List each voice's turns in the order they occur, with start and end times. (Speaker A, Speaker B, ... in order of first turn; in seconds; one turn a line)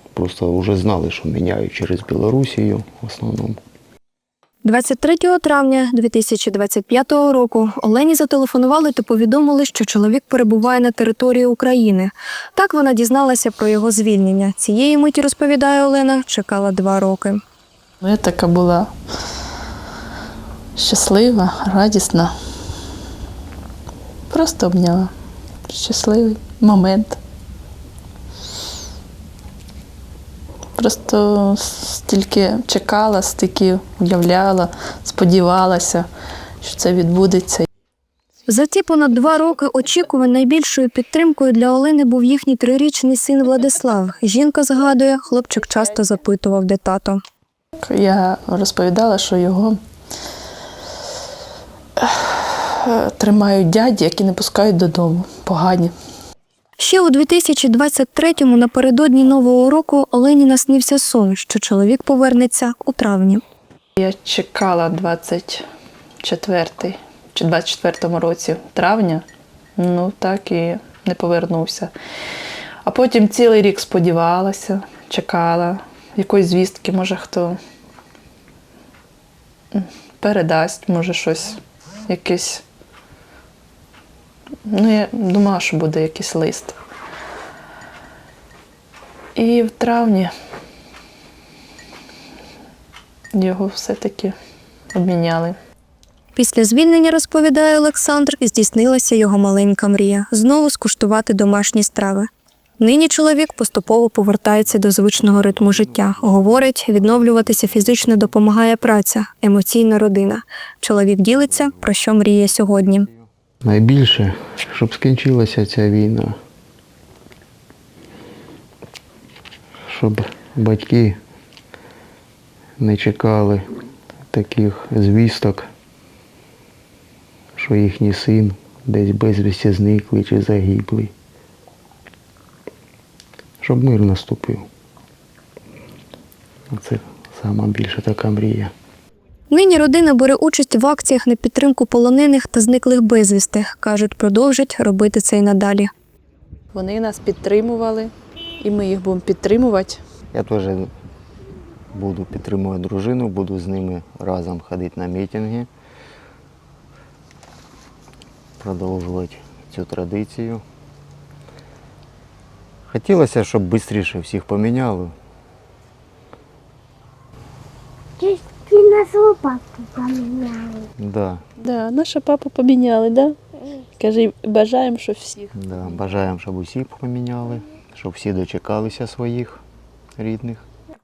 Speaker A: 0.1-3.6
Speaker B: 4.6-17.4
Speaker C: 18.0-18.9
Speaker C: 20.8-22.3
Speaker C: 24.3-25.1
Speaker C: 25.7-27.2
Speaker C: 30.8-36.0
Speaker C: 36.6-37.7
Speaker B: 38.5-47.2
Speaker C: 47.8-49.8
Speaker C: 52.0-55.9
Speaker B: 56.8-63.4
Speaker C: 64.0-65.7
Speaker C: 66.2-69.2
Speaker C: 69.8-71.9
Speaker C: 72.8-77.6
Speaker C: 79.7-82.6
Speaker C: 84.7-86.8
Speaker C: 89.3-90.3
Speaker C: 93.3-94.3
Speaker C: 94.9-95.5
Speaker B: 96.3-102.3
Speaker B: 102.8-113.1
Speaker A: 105.5-106.1
Speaker A: 113.6-116.4
Speaker A: 119.8-121.2
Speaker A: 122.8-123.6
Speaker A: 124.3-125.7
Speaker A: 127.5-131.1
Speaker A: 133.6-134.7
Speaker A: 136.7-138.7
Speaker B: 139.5-145.9
Speaker C: 146.7-150.0
Speaker A: 150.3-150.9
Speaker A: 151.9-155.7
Speaker A: 158.6-160.6
Speaker A: 162.9-165.1
Speaker C: 168.2-170.9
Speaker A: 171.0-171.4
Speaker C: 171.6-173.4
Speaker C: 174.0-175.5
Speaker A: 175.5-179.6
Speaker A: 180.2-180.7